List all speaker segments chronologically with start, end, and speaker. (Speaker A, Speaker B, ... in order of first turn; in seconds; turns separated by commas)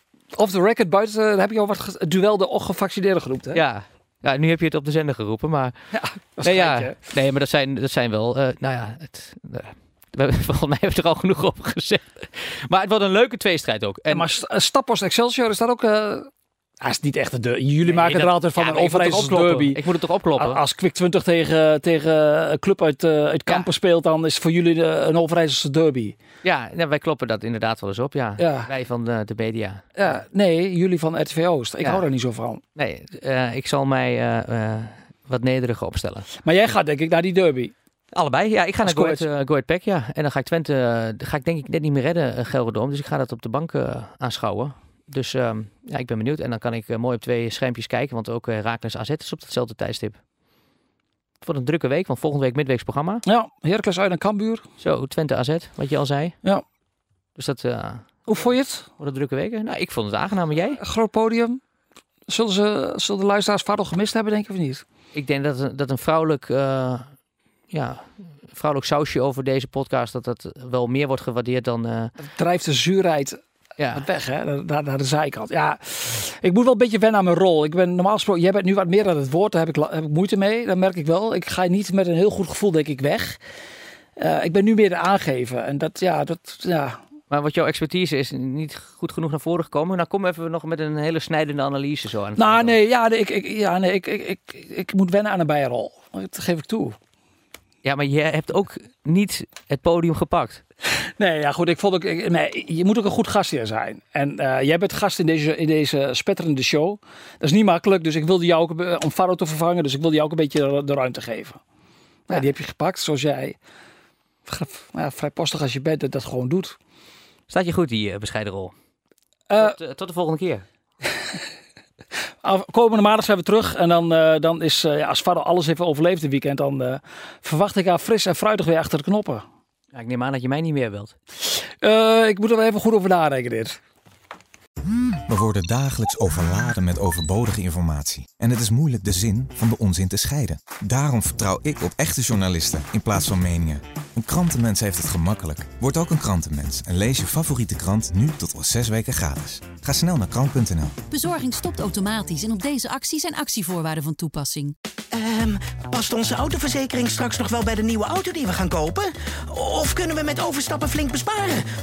Speaker A: 0.3-3.6, Speaker B: 3.5-5.7, Speaker A: 5.9-7.0, Speaker B: 6.4-14.3, Speaker A: 14.1-19.8, Speaker B: 17.9-20.6, Speaker A: 20.4-26.1, Speaker B: 26.4-29.9, Speaker A: 28.4-28.7, Speaker A: 30.0-32.6, Speaker B: 32.8-36.3, Speaker A: 36.4-37.7, Speaker B: 38.1-50.2, Speaker A: 38.8-39.2, Speaker B: 51.4-53.2, Speaker A: 53.2-54.6, Speaker B: 54.8-56.4, Speaker B: 57.4-58.2, Speaker A: 58.3-58.9, Speaker B: 59.0-60.8, Speaker A: 60.8-61.6, Speaker A: 62.3-64.8, Speaker B: 65.1-67.1, Speaker B: 67.7-72.1, Speaker A: 72.2-73.4, Speaker B: 73.8-74.0, Speaker A: 73.9-83.4, Speaker A: 84.2-87.0, Speaker B: 87.3-92.8, Speaker A: 92.4-97.0, Speaker B: 97.8-100.6, Speaker A: 101.0-111.6, Speaker A: 112.3-113.6, Speaker A: 114.5-116.8, Speaker B: 117.5-118.7, Speaker A: 119.5-119.8, Speaker B: 119.6-120.6, Speaker A: 122.4-129.4, Speaker B: 129.9-131.1, Speaker A: 131.5-133.8, Speaker C: 135.3-151.0, Speaker D: 151.1-154.7, Speaker E: 155.1-161.7